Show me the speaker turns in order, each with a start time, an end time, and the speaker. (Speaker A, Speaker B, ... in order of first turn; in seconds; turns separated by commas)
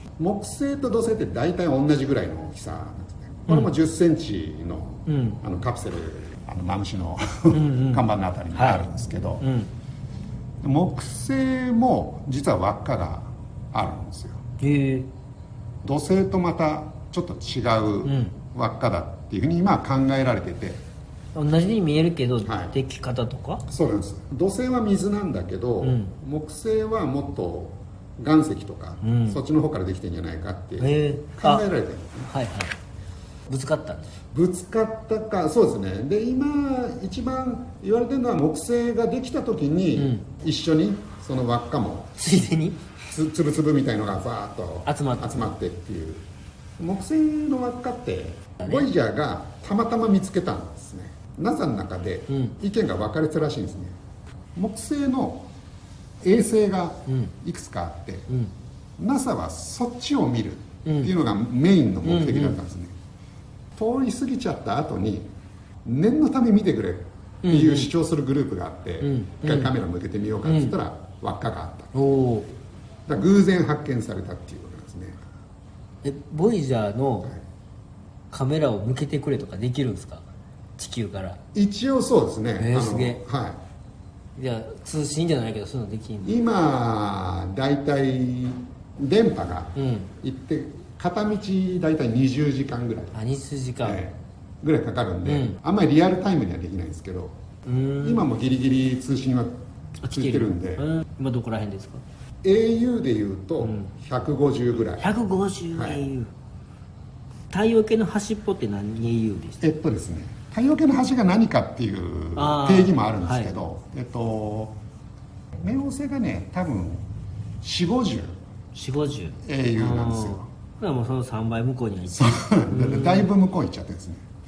Speaker A: 0.2-9.4, Speaker B: 5.1-5.4, Speaker B: 7.5-8.9, Speaker B: 9.4-9.7, Speaker A: 10.6-14.4, Speaker B: 14.6-15.1, Speaker A: 15.8-20.8, Speaker B: 18.0-18.3, Speaker B: 21.3-23.6, Speaker A: 22.4-22.7, Speaker A: 23.7-32.3, Speaker B: 25.8-26.1, Speaker B: 29.0-29.4, Speaker B: 30.8-31.6, Speaker B: 32.3-32.7, Speaker B: 33.5-34.1, Speaker A: 34.3-42.2, Speaker B: 40.0-40.3, Speaker B: 42.2-42.9, Speaker A: 43.1-46.2, Speaker B: 44.9-45.5, Speaker A: 46.8-54.0, Speaker B: 52.3-52.6, Speaker A: 54.5-55.5, Speaker A: 56.2-58.3, Speaker B: 57.1-57.3, Speaker A: 59.0-63.0, Speaker B: 60.8-61.1, Speaker B: 62.0-62.6, Speaker A: 63.8-65.3, Speaker A: 65.8-71.9, Speaker B: 67.4-67.9, Speaker B: 69.0-69.7, Speaker B: 70.4-70.7, Speaker B: 71.9-72.5, Speaker A: 73.1-75.2, Speaker B: 76.0-77.3, Speaker B: 78.3-80.3, Speaker B: 80.8-81.4, Speaker A: 81.5-83.6, Speaker B: 82.6-83.2, Speaker B: 84.3-86.4, Speaker A: 86.2-93.2, Speaker B: 89.8-90.1, Speaker B: 93.1-94.0, Speaker A: 93.8-97.4, Speaker B: 95.2-95.6, Speaker B: 97.7-98.2, Speaker A: 98.0-100.9, Speaker B: 100.0-102.0, Speaker A: 102.4-105.1, Speaker B: 103.6-103.9, Speaker B: 105.0-106.3, Speaker A: 105.7-106.0, Speaker B: 107.5-109.6, Speaker A: 109.6-114.8, Speaker B: 112.3-113.5, Speaker A: 115.6-117.0, Speaker A: 117.6-118.4, Speaker B: 118.7-123.3, Speaker A: 119.4-120.5, Speaker A: 122.1-124.2